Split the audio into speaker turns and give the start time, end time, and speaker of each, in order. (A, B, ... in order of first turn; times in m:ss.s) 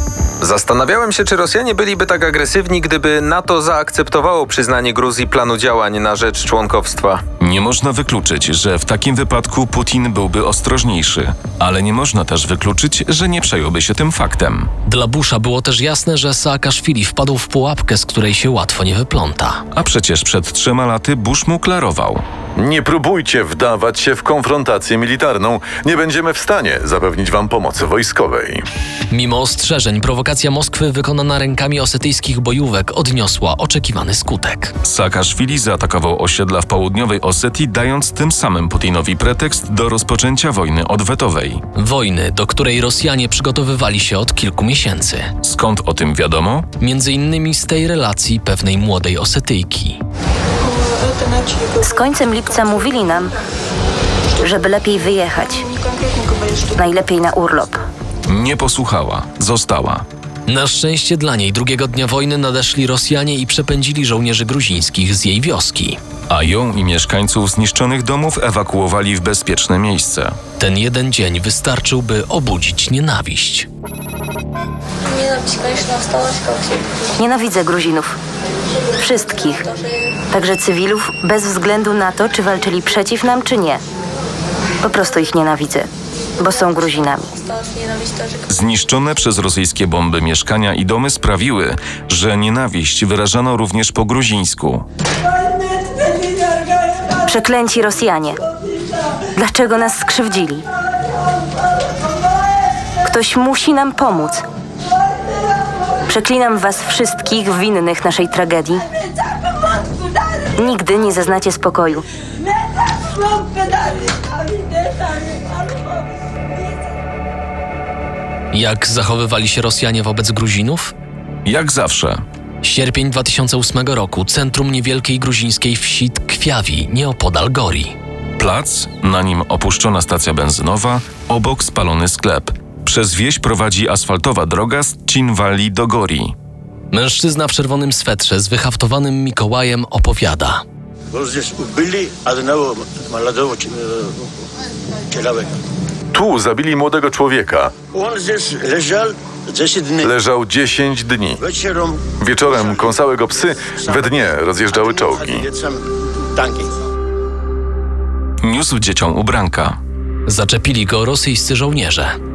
0:00.4-0:07.2 A
0:07.4-0:14.7 B
0:14.9-0:19.6 C
0:19.7-0:22.2 B
0:22.6-0:28.7 D
0:29.1-0:34.8 C
0:34.8-0:41.6 B
0:41.8-0:45.3 C
0:45.4-0:46.7 B
0:46.8-0:50.0 C
0:51.8-0:53.3 E
0:54.4-0:55.7 E
0:56.6-0:57.8 E
0:58.3-1:00.0 B
1:00.5-1:06.0 C
1:06.3-1:10.4 B
1:10.6-1:13.7 C
1:17.2-1:18.2 E
1:19.0-1:19.7 E
1:20.3-1:23.8 E
1:24.8-1:25.9 E
1:26.4-1:27.4 E
1:28.5-1:34.8 B
1:37.2-1:38.4 E
1:39.3-1:40.7 E
1:43.0-1:44.4 E
1:46.1-1:48.8 E
1:50.5-1:52.0 E
1:58.5-2:00.9 C
2:01.4-2:02.2 B
2:02.6-2:08.0 C
2:08.4-2:16.3 B
2:16.9-2:20.6 C
2:21.1-2:24.0 F
2:25.1-2:25.5 F
2:26.1-2:27.7 D
2:27.9-2:30.1 F
2:30.0-2:31.4 D
2:31.4-2:32.1 F
2:32.2-2:35.5 D
2:32.6-2:33.0 F
2:33.8-2:34.1 F
2:34.8-2:35.8 F
2:36.4-2:36.7 F
2:38.4-2:39.8 B
2:40.3-2:42.1 C